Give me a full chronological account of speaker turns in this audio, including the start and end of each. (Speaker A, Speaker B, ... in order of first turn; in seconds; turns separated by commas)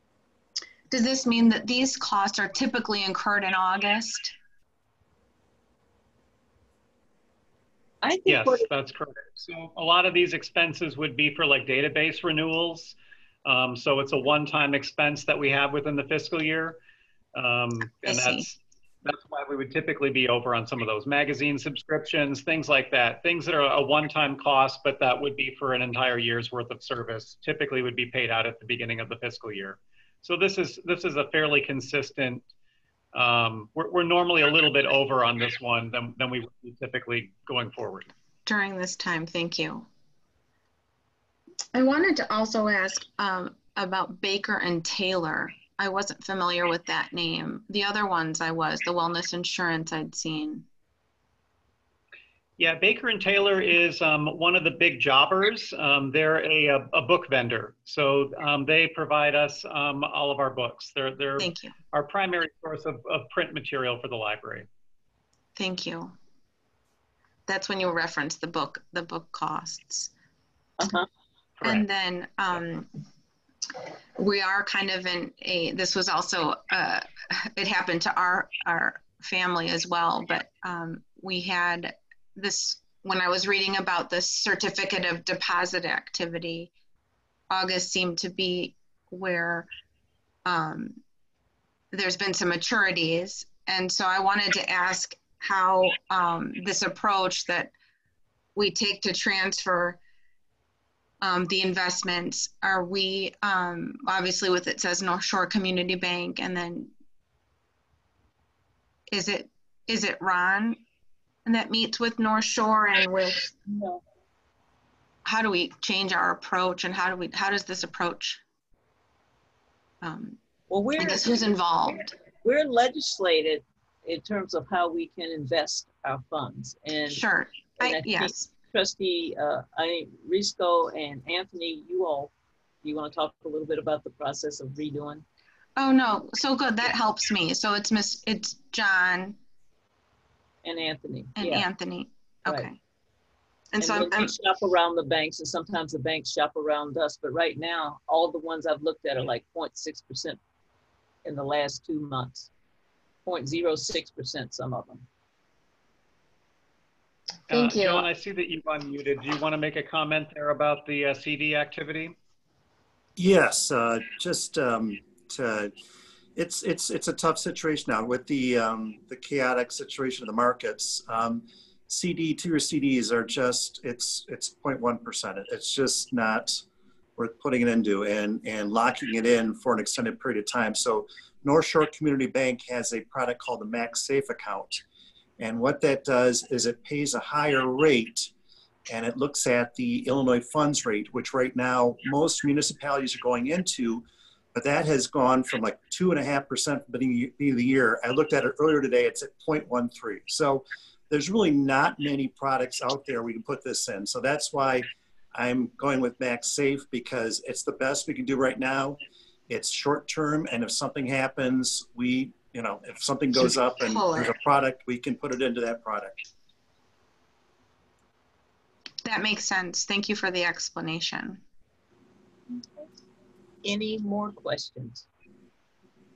Speaker A: 0.9-4.3, Speaker B: 8.0-8.7, Speaker C: 8.3-16.8, Speaker C: 17.3-32.4, Speaker A: 18.0-18.5, Speaker C: 33.1-38.1, Speaker A: 38.5-39.9, Speaker A: 41.7-50.6, Speaker C: 52.6-64.7, Speaker A: 61.4-61.7, Speaker A: 65.5-66.1, Speaker A: 67.5-70.1, Speaker B: 70.8-71.1, Speaker A: 71.6-72.9, Speaker A: 74.2-86.7, Speaker A: 87.5-89.7, Speaker A: 90.4-91.0, Speaker A: 91.9-97.7, Speaker A: 98.5-100.0, Speaker A: 101.2-106.9, Speaker A: 109.1-110.8, Speaker A: 111.5-113.5, Speaker B: 113.7-114.0, Speaker A: 115.2-118.4, Speaker A: 120.0-120.4, Speaker B: 120.7-121.5, Speaker A: 121.0-122.1, Speaker B: 122.4-127.2, Speaker A: 127.1-128.5, Speaker B: 127.8-132.3, Speaker B: 132.8-135.2, Speaker A: 135.8-139.4, Speaker B: 140.6-141.7, Speaker A: 141.4-142.8, Speaker B: 142.4-142.7, Speaker A: 143.7-144.3, Speaker B: 143.8-150.4, Speaker B: 151.2-152.5, Speaker B: 153.2-155.1, Speaker C: 157.5-162.1, Speaker A: 157.5-158.1, Speaker D: 163.2-165.7, Speaker D: 166.3-176.6, Speaker D: 177.2-184.8, Speaker D: 185.4-188.3, Speaker D: 188.9-216.2, Speaker A: 213.3-214.4, Speaker A: 219.0-221.4, Speaker B: 223.6-225.1